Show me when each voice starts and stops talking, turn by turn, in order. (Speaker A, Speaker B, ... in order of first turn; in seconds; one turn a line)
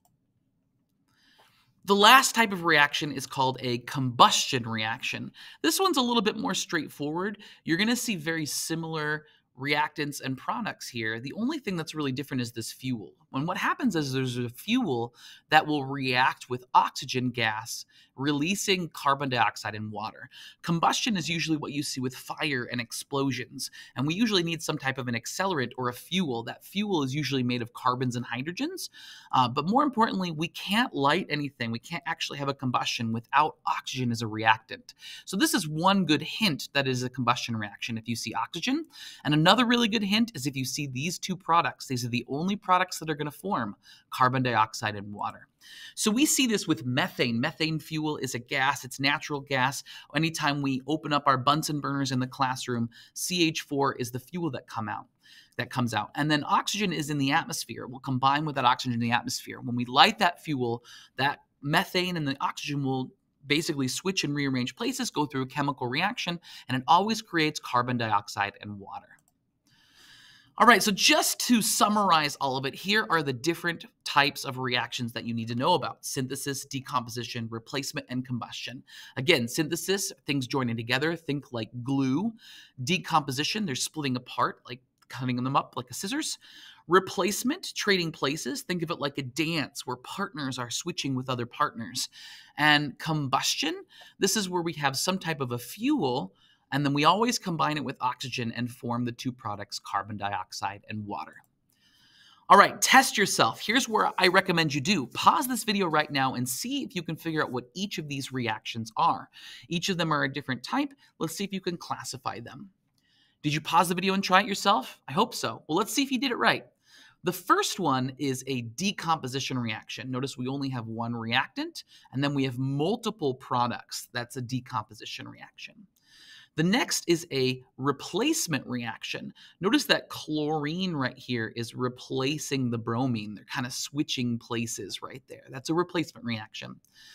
Speaker A: 1.8-69.2
Speaker A: 70.6-101.4
Speaker A: 102.5-112.7
Speaker A: 113.4-116.7
Speaker A: 117.2-125.9
Speaker A: 126.5-136.8